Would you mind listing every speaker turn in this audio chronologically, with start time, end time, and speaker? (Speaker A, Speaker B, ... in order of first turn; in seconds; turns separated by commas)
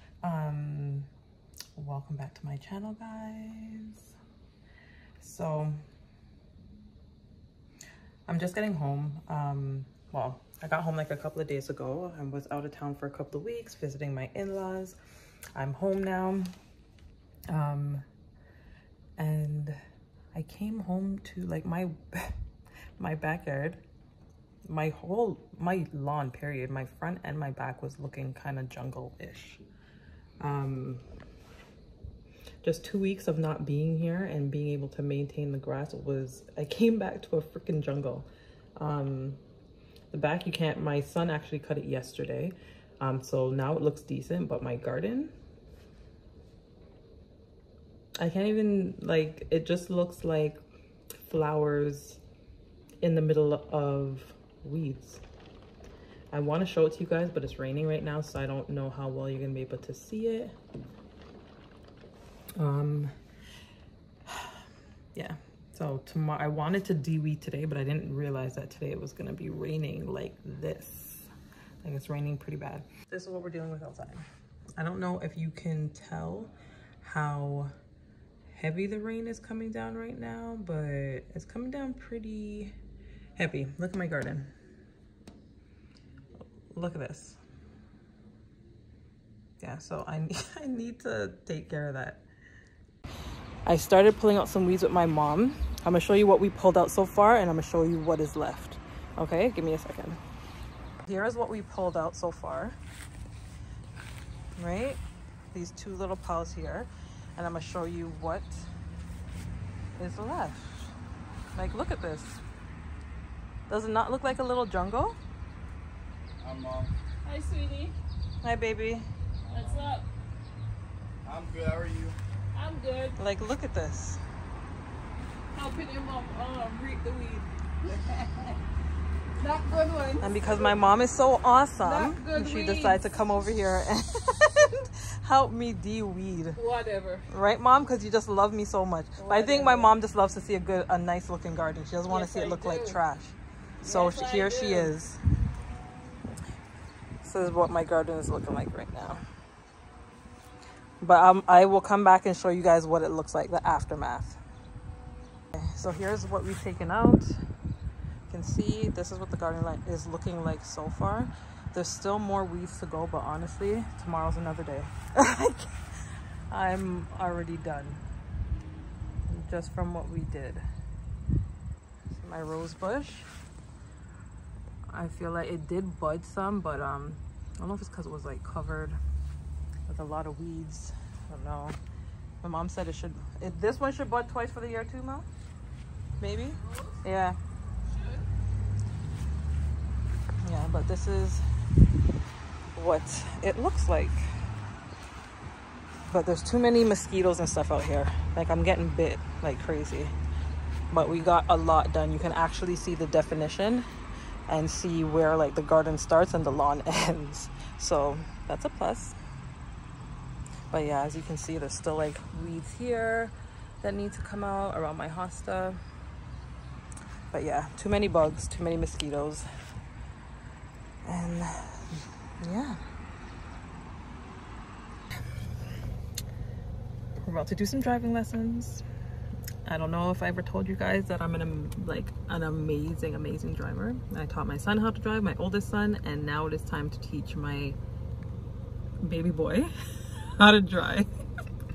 Speaker A: 0.2-1.1, Speaker A: 1.8-4.1, Speaker A: 5.2-5.8, Speaker A: 8.3-14.9, Speaker A: 15.5-16.5, Speaker A: 17.5-18.0, Speaker A: 19.2-19.8, Speaker A: 20.3-22.3, Speaker A: 23.0-23.8, Speaker A: 24.6-29.6, Speaker A: 30.4-31.0, Speaker A: 32.6-39.4, Speaker A: 40.1-45.3, Speaker A: 48.2-50.6, Speaker A: 51.2-52.2, Speaker A: 53.0-55.2, Speaker A: 56.3-60.5, Speaker A: 62.6-63.1, Speaker A: 64.3-64.6, Speaker A: 65.1-71.3, Speaker A: 71.8-74.2, Speaker A: 74.8-77.7, Speaker A: 78.5-82.7, Speaker A: 83.4-84.5, Speaker A: 86.7-87.4, Speaker A: 89.6-92.2, Speaker A: 93.7-100.2, Speaker A: 101.0-102.8, Speaker A: 104.6-105.0, Speaker A: 105.5-108.7, Speaker A: 110.0-110.9, Speaker A: 111.5-112.4, Speaker A: 113.7-115.2, Speaker B: 116.4-116.9, Speaker C: 117.2-118.0, Speaker A: 118.4-119.1, Speaker B: 119.5-120.0, Speaker C: 119.5-120.0, Speaker B: 121.2-122.2, Speaker C: 122.5-123.2, Speaker A: 123.2-124.2, Speaker C: 125.5-128.6, Speaker C: 129.4-130.8, Speaker A: 130.2-136.6, Speaker C: 131.8-133.0, Speaker C: 136.6-137.3, Speaker A: 137.3-145.2, Speaker C: 139.2-139.9, Speaker C: 142.1-143.0, Speaker C: 143.8-144.9, Speaker A: 147.2-149.2, Speaker A: 151.0-154.4, Speaker A: 155.5-157.3, Speaker A: 158.3-165.7, Speaker A: 166.5-168.0, Speaker A: 169.3-170.6, Speaker A: 172.1-173.3, Speaker A: 174.9-179.0, Speaker A: 179.9-181.8, Speaker A: 182.4-185.3, Speaker A: 186.2-187.4, Speaker C: 187.9-188.2, Speaker A: 190.4-191.4, Speaker A: 192.7-194.2, Speaker A: 196.1-200.1, Speaker A: 200.9-203.8, Speaker A: 204.5-209.2, Speaker A: 210.7-215.8, Speaker A: 217.3-219.4, Speaker A: 221.0-222.8, Speaker A: 227.2-228.8, Speaker A: 229.6-237.8, Speaker A: 239.0-241.1